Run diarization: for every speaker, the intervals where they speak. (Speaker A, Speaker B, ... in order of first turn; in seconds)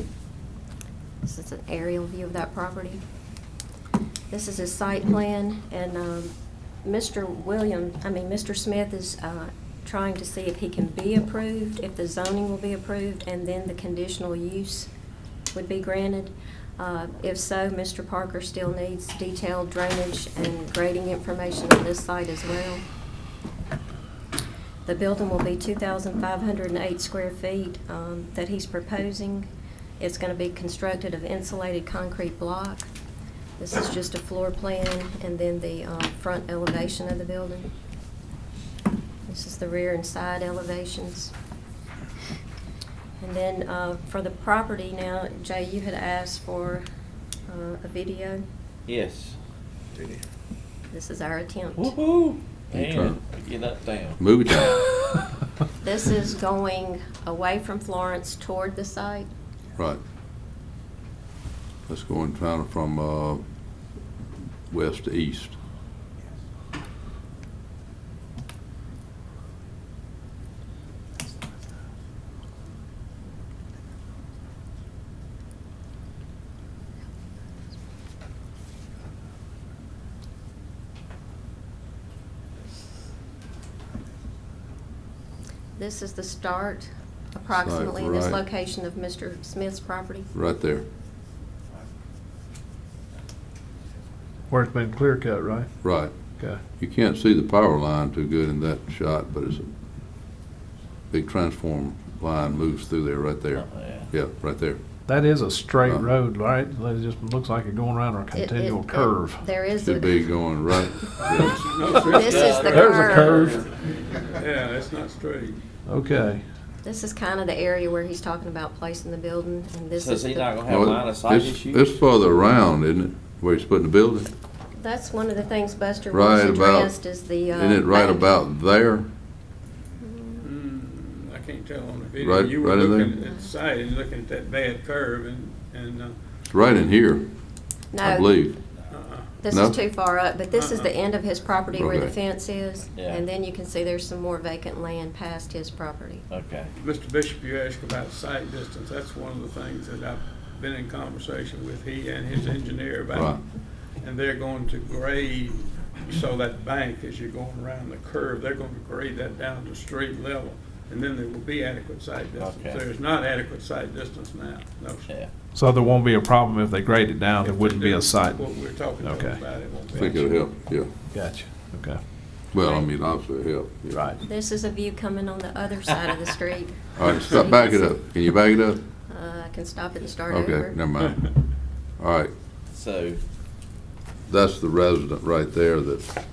Speaker A: 1.2-3.0, 4.3-6.3, 6.8-14.9, 15.5-22.8, 24.9-29.5, 30.0-32.9, 33.6-37.7, 39.3-41.3, 43.2-46.9, 47.5-48.5, 50.9-51.9, 55.8-59.3, 85.8-90.3, 108.3-110.3, 112.0-113.6, 116.8-120.6, 124.8-128.3, 130.0-130.5, 133.2-133.5, 137.9-138.4, 139.4-146.3, 174.2-177.9, 179.1-180.8
Speaker B: 48.9-49.4, 50.0-50.2, 51.8-54.2, 103.5-104.1, 113.3-113.6, 120.0-121.9, 143.0-143.2, 146.3-146.7, 162.4-162.8, 182.7-183.2
Speaker C: 52.7-53.2, 54.2-55.0, 61.9-63.4, 64.7-65.6, 87.5-88.4, 90.3-90.8, 95.8-96.1, 96.8-99.7, 101.1-104.8, 105.8-106.1, 109.8-111.6, 120.7-124.3, 126.1-127.0, 127.5-129.1, 132.2-133.2, 136.5-137.3, 138.0-138.6, 139.5-139.8, 141.8-142.1, 153.1-153.4, 169.9-170.9, 172.5-174.1, 177.0-178.8, 180.3-181.3, 182.0-182.3, 184.3-186.1
Speaker D: 94.5-95.7, 105.1-109.4, 112.0-113.6, 115.9-116.5, 165.5-169.4, 170.0-170.3, 171.1-172.0, 173.9-174.2
Speaker E: 111.4-112.8, 114.3-115.5, 130.8-136.2, 146.8-153.2, 154.0-165.0, 167.4-170.2